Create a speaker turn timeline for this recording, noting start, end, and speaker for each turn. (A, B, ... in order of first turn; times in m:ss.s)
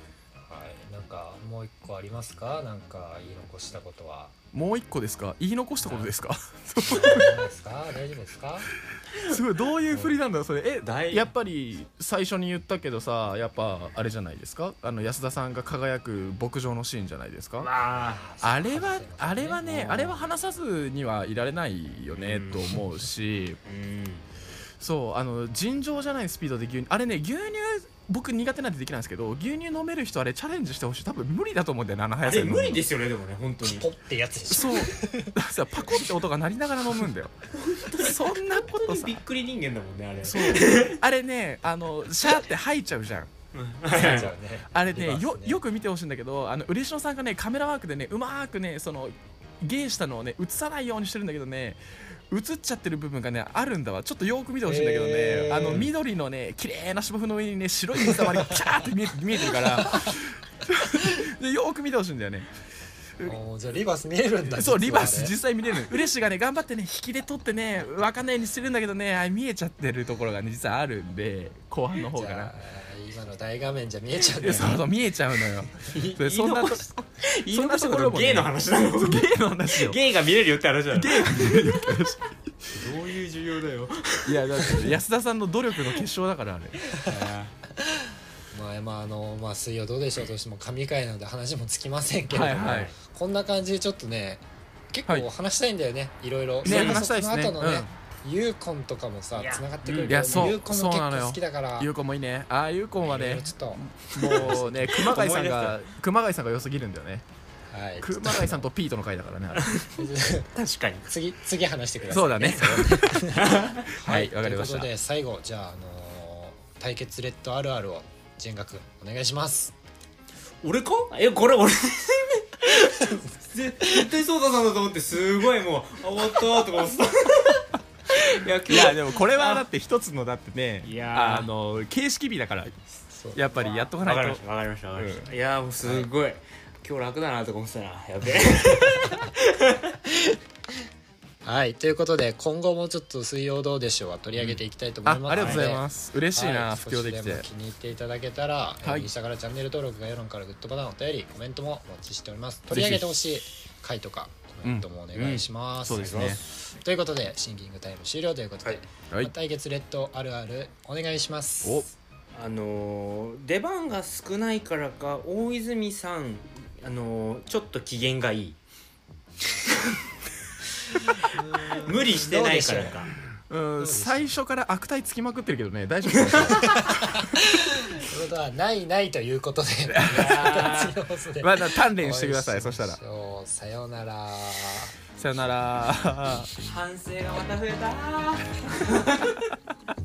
0:00.5-0:04.3 A
0:04.5-0:07.5 B
0:05.8-0:06.1 C
0:06.8-0:08.7 A
0:09.2-0:17.7 B
0:09.9-0:10.2 C
0:10.8-0:11.3 C
0:17.6-0:18.3 C
0:17.9-0:19.6 A
0:18.4-0:23.6 B
0:19.6-0:20.3 C
0:22.2-0:22.8 C
0:23.6-0:24.2 C
0:24.8-0:32.8 B
0:32.2-0:33.9 C
0:33.6-0:35.4 A
0:34.5-0:37.4 B
0:37.6-0:41.0 C
0:37.9-0:39.2 B
0:40.2-0:43.3 B
0:43.5-0:44.3 C
0:43.9-0:45.6 A
0:44.0-1:02.5 B
0:54.6-0:55.9 A
0:59.5-1:00.1 A
1:03.2-1:05.3 A
1:04.5-1:12.5 B
1:12.1-1:14.8 A
1:14.4-1:20.0 B
1:14.4-1:14.8 C
1:15.9-1:21.7 C
1:20.9-1:22.8 B
1:22.7-1:25.0 C
1:24.2-1:26.8 B
1:27.0-1:27.5 C
1:28.5-1:41.9 A
1:32.3-1:32.9 B
1:32.4-1:33.0 C
1:36.6-1:37.1 C
1:36.6-1:37.9 B
1:39.4-1:40.6 C
1:40.1-1:47.2 B
1:43.0-1:43.8 A
1:44.2-1:45.8 C
1:44.4-1:45.0 A
1:47.7-1:48.7 A
1:48.0-1:49.8 B
1:49.6-1:50.0 C
1:50.0-1:50.5 A
1:50.5-1:51.1 C
1:51.1-1:59.7 A
1:52.1-1:53.3 B
1:53.3-1:53.9 C
1:53.9-1:54.9 B
2:00.6-2:09.7 C
2:02.8-2:03.2 A
2:08.7-2:12.8 B
2:10.8-2:11.5 C
2:13.1-2:13.6 A
2:13.3-2:14.4 B
2:13.5-2:20.3 C
2:14.9-2:15.3 B
2:15.8-2:16.1 A
2:21.4-2:41.9 A
2:25.0-2:27.4 B
2:25.3-2:25.7 C
2:28.8-2:29.1 B
2:32.7-2:33.1 B
2:35.1-2:36.4 C
2:35.8-2:36.4 B
2:42.3-2:48.6 C
2:51.3-2:52.9 A
2:51.8-2:53.2 C
2:53.5-2:56.8 B
2:53.8-2:54.4 A
2:56.2-2:56.8 C
2:56.5-3:05.0 A
3:00.0-3:00.8 B
3:00.1-3:01.0 C
3:01.4-3:03.0 B
3:05.2-3:06.5 B
3:06.6-3:09.5 C